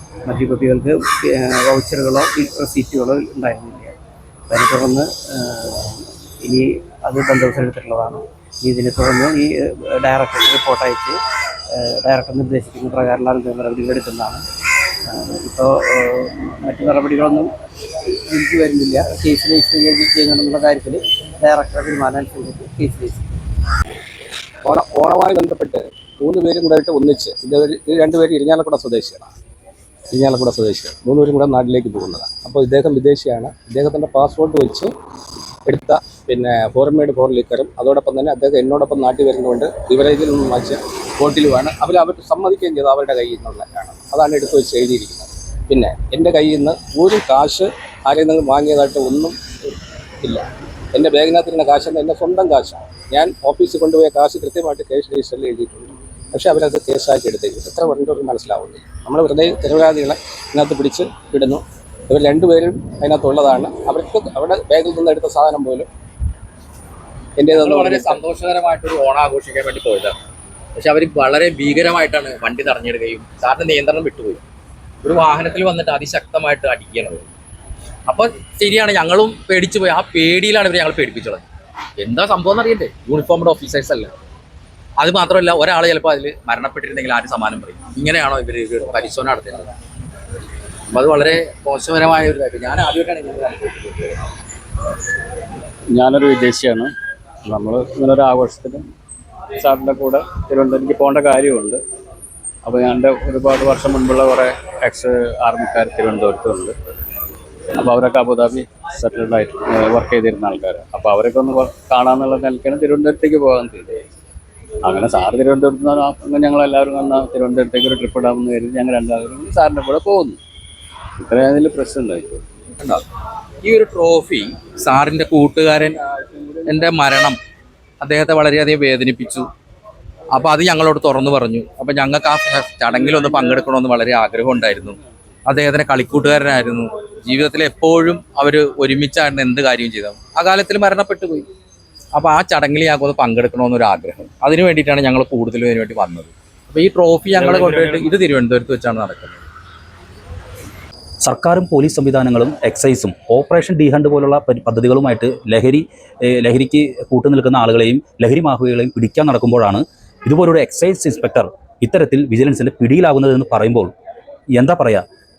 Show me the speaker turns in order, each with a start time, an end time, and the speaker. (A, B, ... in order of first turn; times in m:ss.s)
0:00.3-0:04.0 A
0:04.5-0:11.2 A
0:11.7-0:14.4 A
0:15.1-0:17.5 A
0:18.3-0:23.2 A
0:24.6-0:29.3 B
0:30.1-0:34.9 B
0:35.7-1:05.9 B
1:07.4-1:08.2 B
1:07.5-1:10.2 C
1:10.8-1:14.4 C
1:15.0-1:17.3 C
1:18.1-1:24.1 C
1:25.0-1:29.7 C
1:30.9-1:34.2 C
1:35.9-1:36.9 D
1:37.4-1:38.9 D
1:39.6-1:41.8 D
1:42.6-1:46.8 D
1:47.8-1:54.1 D
1:54.8-2:00.4 D
2:01.2-2:02.4 D
2:03.6-2:06.0 C
2:06.2-2:06.9 D
2:06.7-2:07.4 C
2:08.0-2:09.5 C
2:10.3-2:21.5 C
2:22.1-2:29.5 C
2:27.5-2:28.1 D
2:31.2-2:43.9 E
2:44.5-2:45.1 E